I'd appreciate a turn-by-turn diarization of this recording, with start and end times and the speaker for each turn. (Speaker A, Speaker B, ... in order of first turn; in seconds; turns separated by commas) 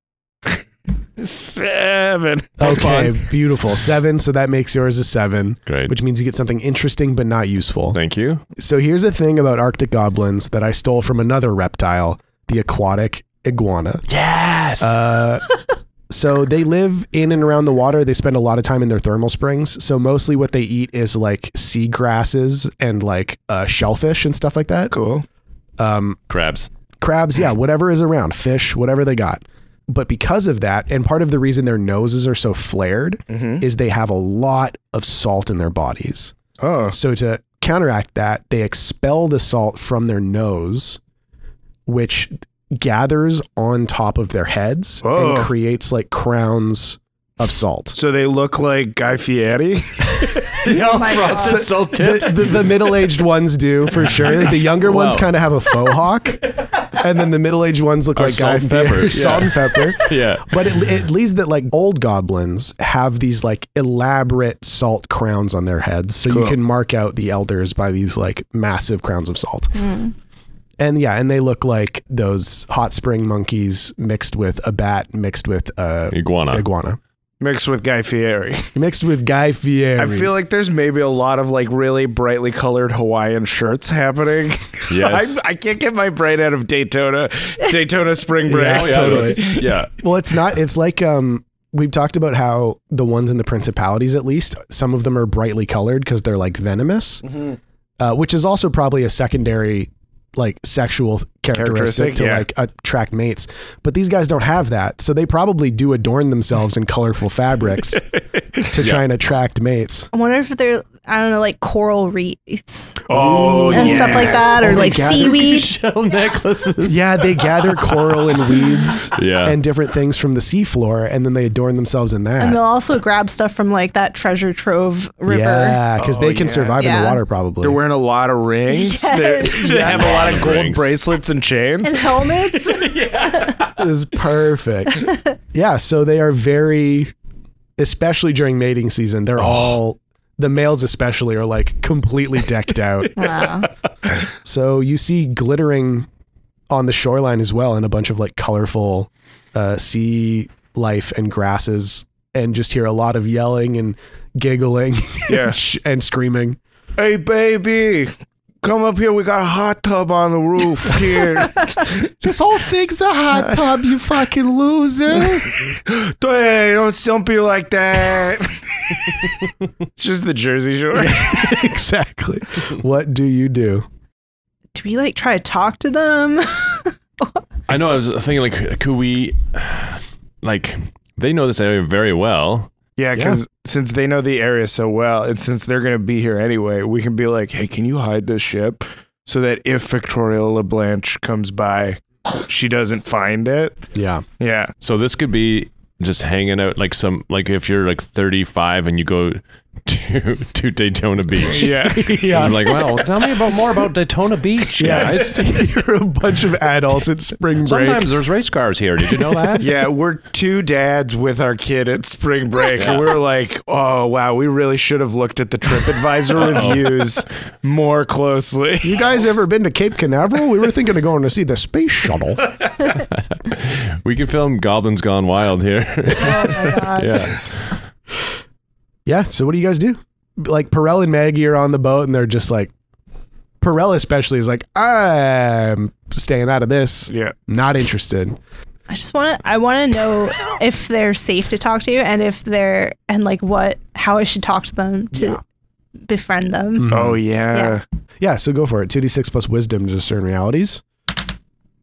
Speaker A: 1.2-3.1, Speaker B: 2.6-8.0, Speaker C: 2.6-3.1, Speaker C: 5.7-5.9, Speaker C: 7.9-8.4, Speaker B: 8.6-14.1, Speaker C: 14.1-15.0, Speaker B: 14.8-15.5, Speaker B: 16.1-24.9, Speaker A: 24.9-25.2, Speaker B: 25.8-26.2, Speaker C: 26.3-26.7, Speaker B: 27.0-36.3, Speaker A: 33.3-33.6, Speaker A: 36.6-37.0, Speaker B: 36.9-41.0, Speaker B: 41.9-48.0, Speaker A: 45.0-45.5, Speaker A: 47.9-50.5, Speaker C: 50.5-52.9, Speaker D: 50.7-51.7, Speaker B: 51.3-69.8, Speaker C: 54.1-55.3, Speaker C: 58.2-60.6, Speaker A: 66.3-66.6, Speaker D: 69.8-70.1, Speaker B: 70.8-77.0, Speaker C: 76.1-76.7, Speaker A: 77.4-78.8, Speaker B: 78.7-80.3, Speaker A: 80.0-89.9, Speaker C: 84.9-85.3, Speaker B: 88.5-97.2, Speaker C: 88.7-89.9, Speaker A: 97.3-97.6, Speaker B: 98.0-108.0, Speaker A: 101.5-102.5, Speaker B: 108.7-110.1, Speaker C: 108.8-109.0, Speaker D: 110.1-113.0, Speaker A: 113.1-114.4, Speaker C: 113.1-117.0, Speaker B: 113.1-115.0, Speaker D: 113.7-115.7, Speaker B: 116.8-122.6, Speaker C: 119.2-119.6, Speaker D: 122.4-125.8, Speaker B: 125.3-127.8, Speaker A: 126.0-126.8, Speaker D: 126.8-127.2, Speaker A: 127.6-132.6, Speaker D: 128.7-130.2, Speaker C: 129.6-131.0, Speaker D: 131.8-133.6, Speaker C: 132.7-133.7, Speaker B: 133.8-137.1, Speaker B: 137.8-143.6, Speaker C: 139.4-139.7, Speaker D: 143.2-143.7, Speaker B: 144.4-146.1, Speaker B: 146.7-156.6, Speaker A: 155.3-155.6, Speaker A: 157.0-162.1, Speaker B: 162.2-165.7, Speaker A: 165.2-169.2, Speaker A: 169.9-171.5, Speaker B: 170.9-173.9, Speaker D: 174.8-177.4, Speaker C: 177.7-182.7, Speaker A: 183.0-193.8, Speaker B: 193.9-194.2, Speaker A: 194.4-194.7, Speaker C: 194.8-205.5, Speaker A: 201.5-202.3, Speaker B: 202.2-202.6, Speaker B: 204.8-208.1, Speaker C: 207.6-209.7, Speaker A: 209.6-219.1, Speaker C: 212.8-213.1, Speaker C: 216.4-217.1, Speaker B: 218.8-222.4, Speaker C: 223.0-227.7, Speaker D: 226.1-227.2, Speaker B: 229.1-232.7, Speaker B: 233.6-238.4, Speaker A: 237.1-237.3, Speaker D: 238.9-245.4, Speaker D: 246.1-247.0, Speaker B: 246.8-247.2, Speaker A: 246.9-247.8, Speaker D: 247.5-247.8, Speaker B: 248.2-250.8